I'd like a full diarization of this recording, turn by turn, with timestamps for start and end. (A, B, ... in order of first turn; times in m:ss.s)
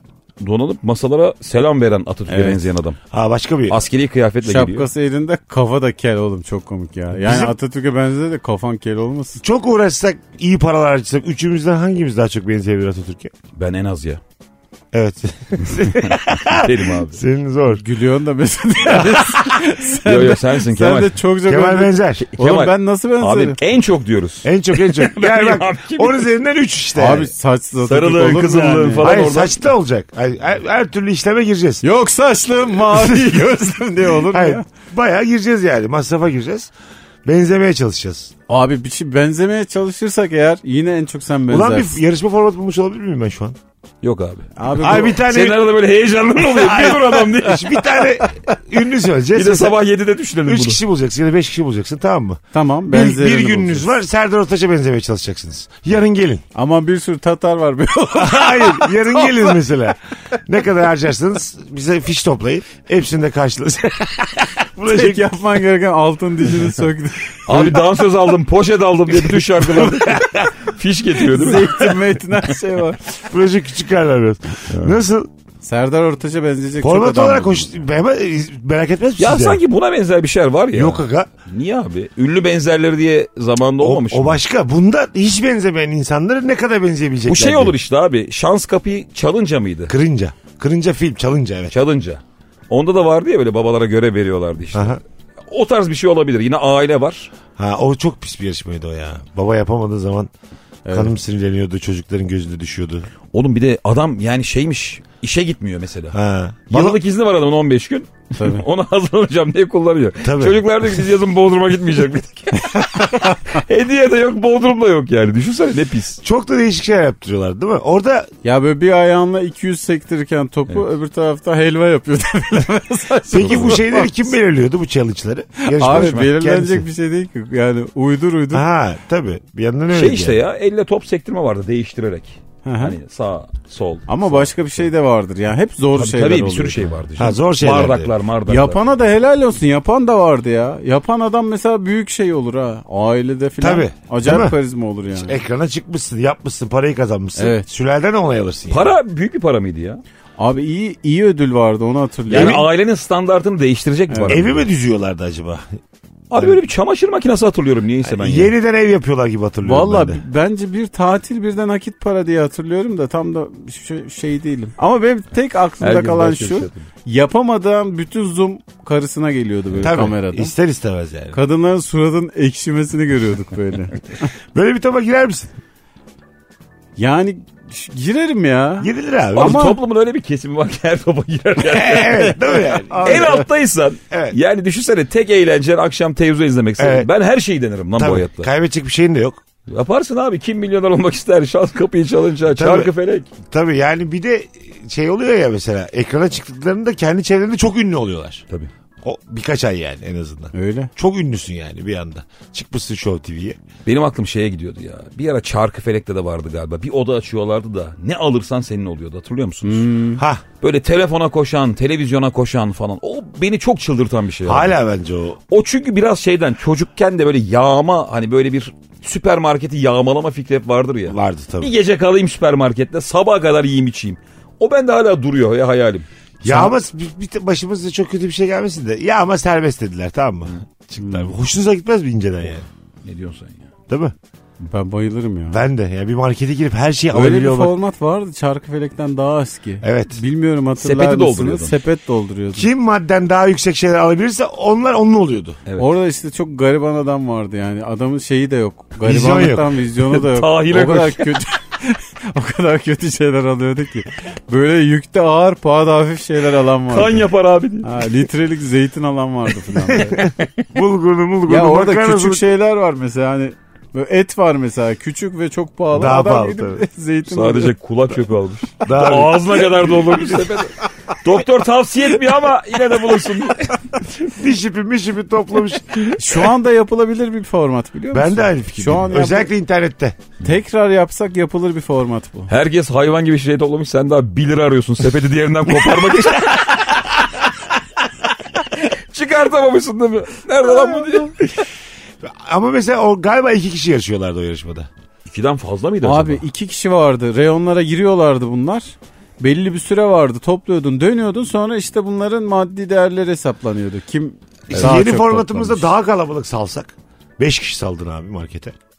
0:00.4-0:03.0 A
0:02.3-0:02.6 B
0:03.1-0:03.8 C
0:03.7-0:04.9 A
0:04.4-0:09.4 B
0:07.2-0:07.5 C
0:09.4-0:13.3 C
0:13.6-0:14.2 A
0:14.9-0:17.8 C
0:15.6-0:17.2 A
0:17.7-0:23.6 B
0:18.9-0:19.4 C
0:18.9-0:19.5 A
0:20.0-0:21.2 A
0:21.4-0:22.3 C
0:22.2-0:26.3 A
0:24.4-0:27.3 C
0:27.0-0:29.2 B
0:27.8-0:29.6 A
0:29.0-0:31.8 C
0:31.8-0:34.6 B
0:32.8-0:33.6 C
0:34.2-0:36.7 C
0:37.2-0:38.3 C
0:38.5-0:42.0 B
0:41.5-0:43.6 C
0:44.0-0:48.2 A
0:44.6-0:45.2 B
0:44.8-0:45.7 C
0:46.3-0:49.8 C
0:49.3-0:50.8 A
0:50.4-0:56.4 C
0:52.5-0:53.9 B
0:56.5-0:59.6 B
0:58.2-1:05.3 C
1:04.8-1:07.7 B
1:07.5-1:12.0 A
1:07.5-1:07.8 C
1:09.1-1:10.5 C
1:11.3-1:13.0 B
1:13.2-1:15.3 C
1:14.7-1:15.0 A
1:15.6-1:17.8 B
1:16.8-1:19.6 C
1:19.2-1:24.4 A
1:20.7-1:21.3 C
1:23.8-1:27.7 C
1:27.3-1:29.9 A
1:29.9-1:31.7 C
1:31.7-1:37.3 A
1:34.7-1:35.0 C
1:37.6-1:40.3 C
1:40.8-1:41.1 B
1:40.9-1:43.1 C
1:43.3-1:46.2 A
1:46.1-1:47.0 C
1:46.7-1:56.2 A
1:48.4-1:48.6 B
1:50.2-1:50.6 C
1:52.6-1:53.4 B
1:56.2-1:58.3 C
1:58.4-2:04.3 B
2:03.3-2:06.8 C
2:03.3-2:03.8 A
2:05.6-2:08.6 B
2:05.8-2:06.3 A
2:08.5-2:10.4 C
2:09.9-2:14.8 A
2:12.6-2:13.0 B
2:14.1-2:16.9 B
2:16.0-2:18.8 A
2:17.2-2:18.1 C
2:18.5-2:25.4 B
2:23.6-2:24.6 C
2:25.1-2:29.0 C
2:27.4-2:27.7 B
2:28.7-2:30.0 A
2:30.4-2:32.6 B
2:32.3-2:34.6 A
2:32.3-2:32.6 C
2:34.1-2:34.4 B
2:34.3-2:35.7 C
2:36.3-2:38.5 A
2:38.0-2:40.2 C
2:39.6-2:50.5 B
2:45.8-2:46.9 A
2:49.7-2:50.1 A
2:49.8-2:51.4 C
2:51.3-2:54.0 B
2:54.5-2:55.6 C
2:57.0-2:59.8 B
2:58.8-2:59.7 C
2:59.3-3:02.4 A
3:01.6-3:03.4 C
3:02.4-3:03.4 B
3:03.0-3:08.5 A
3:04.1-3:04.4 C
3:06.8-3:07.1 C
3:08.0-3:09.4 C
3:09.7-3:13.3 A
3:12.5-3:12.9 C
3:13.4-3:18.4 C
3:19.0-3:23.6 C
3:20.5-3:20.9 B
3:23.8-3:29.9 A
3:29.6-3:30.2 B
3:30.2-3:30.4 C
3:30.6-3:34.8 A
3:34.4-3:35.4 C
3:35.5-3:46.1 A
3:41.1-3:41.7 C
3:46.4-3:52.7 C
3:46.4-3:46.7 B
3:51.0-3:51.3 B
3:53.0-3:53.6 A
3:53.9-3:54.1 C
3:54.6-3:55.6 B
3:55.5-3:57.7 C
3:57.1-4:02.7 B
3:59.8-4:00.2 C
4:00.8-4:01.8 A
4:02.6-4:05.6 C
4:05.8-4:17.2 B
4:09.0-4:09.7 C
4:10.0-4:11.4 A
4:16.9-4:18.1 A
4:17.8-4:20.2 B
4:20.0-4:22.5 C
4:21.5-4:27.7 B
4:25.9-4:26.8 C
4:27.3-4:34.0 A
4:28.8-4:30.6 C
4:34.2-4:36.2 C
4:36.2-4:39.5 B
4:38.1-4:40.2 C
4:40.4-4:42.5 B
4:42.5-4:47.5 A
4:48.6-4:51.3 A
4:50.7-4:51.3 B
4:52.2-4:54.9 C
4:55.2-4:56.4 A
4:56.0-5:05.9 B
5:04.7-5:08.7 C